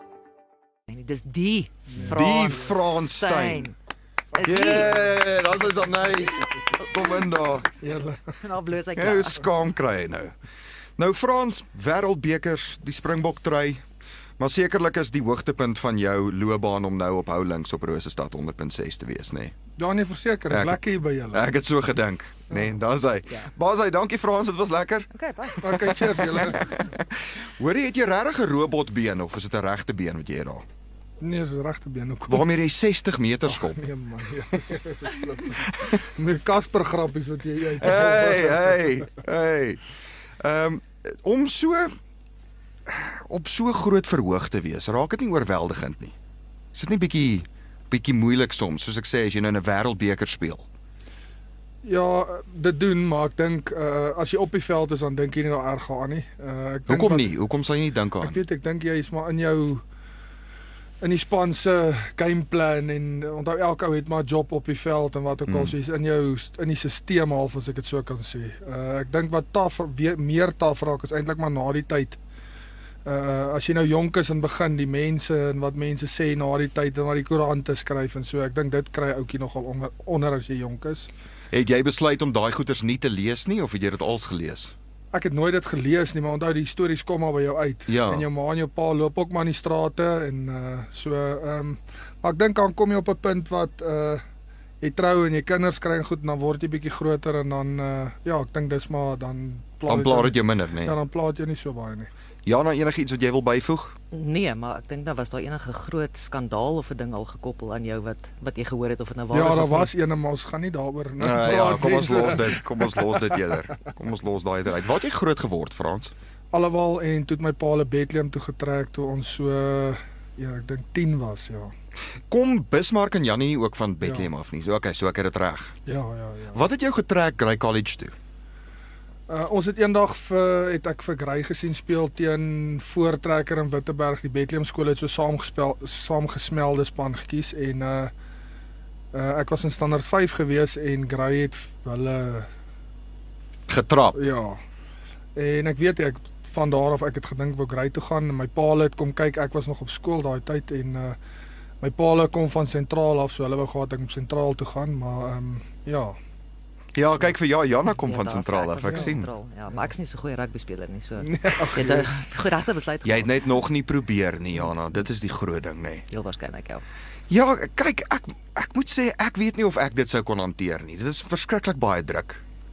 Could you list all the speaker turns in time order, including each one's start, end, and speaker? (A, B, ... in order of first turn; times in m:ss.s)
0:00.9-0:03.8 A
0:01.9-0:02.7 B
0:02.0-0:03.7 C
0:04.3-0:05.0 A
0:04.3-0:05.2 B
0:04.4-0:07.7 C
0:07.8-0:08.2 B
0:08.4-0:09.4 A
0:09.0-0:10.3 C
0:11.0-0:13.8 C
0:14.4-0:19.5 C
0:19.8-0:21.4 B
0:20.5-0:25.1 C
0:25.1-0:26.4 A
0:25.6-0:26.8 B
0:25.6-0:30.6 C
0:31.2-0:32.5 B
0:32.3-0:33.8 C
0:33.5-0:38.8 B
0:37.8-0:39.8 C
0:40.4-0:42.0 C
0:42.9-0:46.2 C
0:46.7-0:50.7 C
0:51.8-0:57.3 B
0:56.9-0:58.4 C
0:58.2-0:59.8 B
1:01.0-1:12.2 B
1:05.5-1:05.7 C
1:13.0-1:21.1 B
1:21.5-1:24.7 C
1:25.1-1:34.2 B
1:27.9-1:28.2 C
1:34.8-1:42.1 B
1:39.9-1:40.9 C
1:42.4-1:44.0 C
1:44.1-1:49.9 A
1:49.3-1:53.4 B
1:51.2-1:56.1 C
1:56.5-2:01.7 B
2:02.3-2:05.8 C
2:04.0-2:04.3 B
2:05.8-2:06.6 B
2:06.5-2:08.1 C
2:09.3-2:18.1 B
2:19.1-2:22.5 B
2:23.7-2:24.2 C
2:24.1-2:24.6 B
2:25.4-2:31.2 B
2:31.8-2:36.1 B
2:36.9-2:39.3 C
2:38.0-2:43.4 A
2:41.2-2:42.2 B
2:43.0-2:46.1 C
2:46.1-2:46.8 A
2:47.3-2:52.4 C